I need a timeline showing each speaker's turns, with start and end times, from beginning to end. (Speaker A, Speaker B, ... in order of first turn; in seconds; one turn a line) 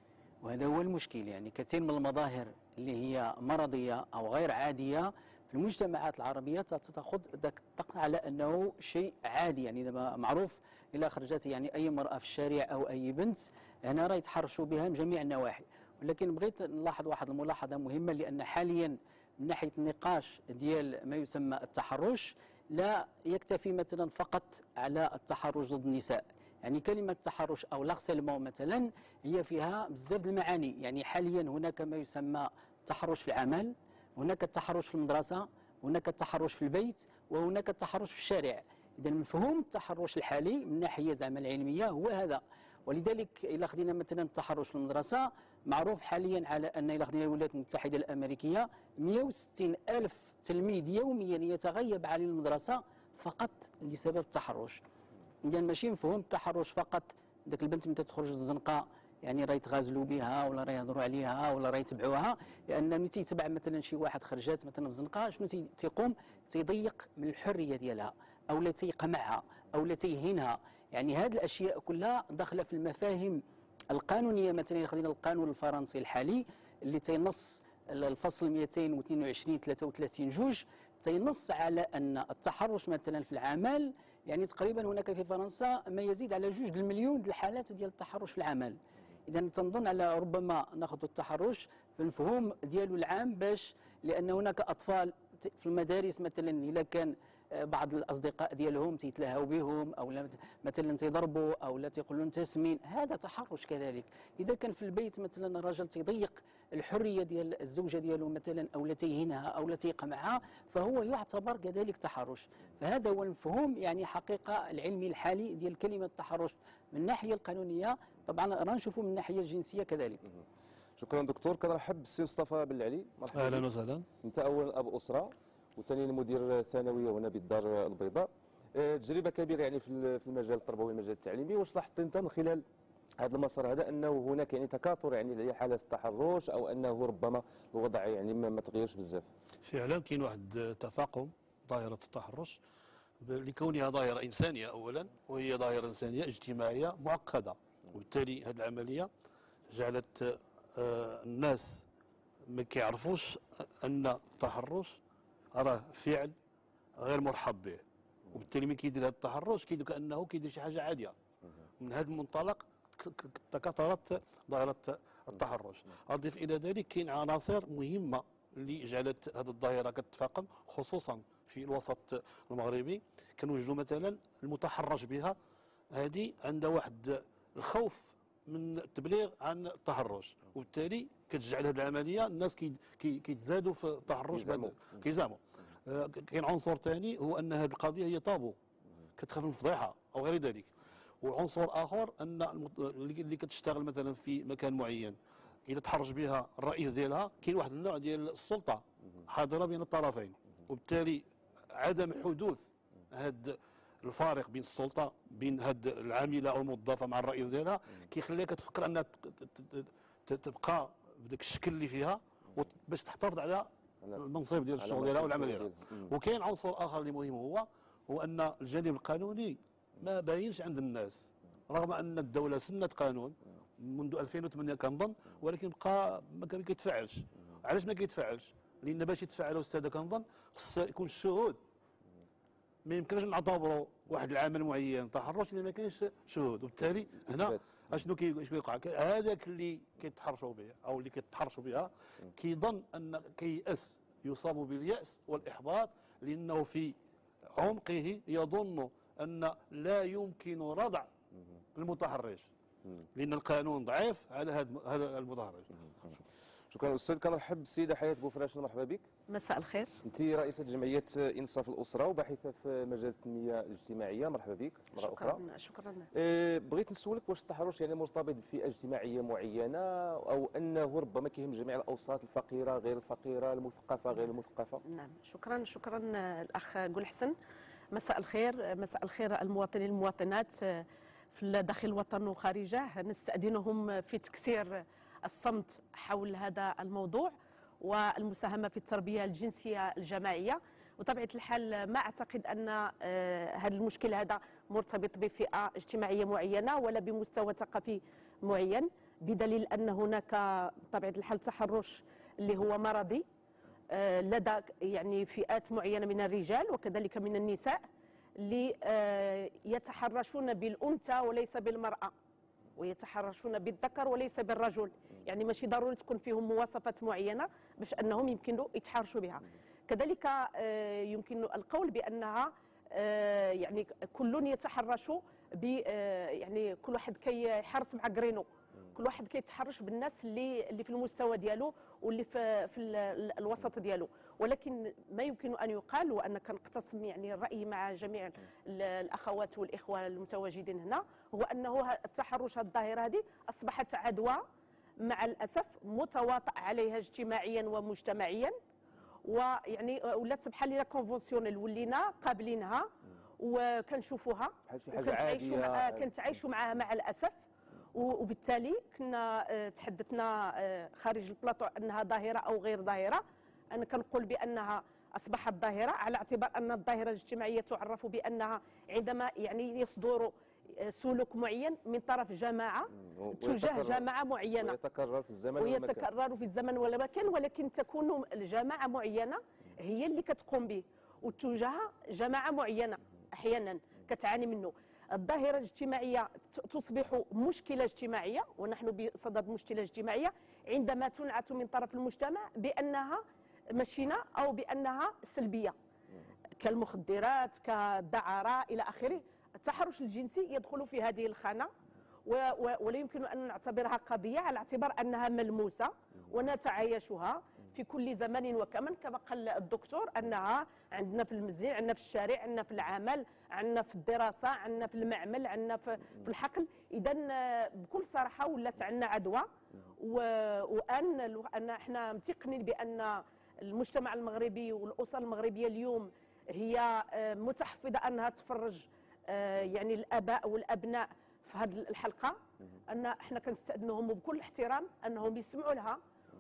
Speaker A: 0.4-54.8
Speaker A: 55.5-120.2
Speaker B: 121.0-123.6
Speaker C: 123.3-124.0
Speaker B: 124.2-132.6
Speaker B: 133.2-139.3
Speaker C: 139.6-142.6
Speaker C: 143.2-149.1
Speaker C: 149.7-151.8
Speaker C: 152.5-155.0
Speaker C: 155.6-156.3
Speaker C: 157.0-161.2
Speaker C: 161.8-175.4
Speaker C: 175.9-188.6
Speaker B: 184.3-184.8
Speaker C: 189.2-231.6
Speaker B: 214.8-216.0
Speaker C: 232.9-246.9
Speaker B: 237.3-237.6
Speaker C: 247.6-251.1
Speaker C: 251.8-252.5
Speaker C: 253.2-255.7
Speaker B: 256.7-259.1
Speaker D: 259.3-259.9
Speaker B: 260.1-265.4
Speaker D: 265.0-266.1
Speaker B: 266.1-274.8
Speaker D: 274.9-277.3
Speaker D: 277.9-303.2
Speaker D: 303.9-307.8
Speaker D: 308.4-312.1
Speaker D: 312.8-344.4
Speaker D: 345.0-348.5
Speaker D: 349.3-357.4
Speaker B: 354.7-356.1
Speaker D: 357.9-374.8
Speaker B: 373.1-374.1
Speaker B: 374.6-376.1
Speaker D: 375.6-395.8
Speaker D: 396.6-401.7
Speaker D: 402.3-419.5
Speaker D: 420.0-432.4
Speaker D: 432.9-436.0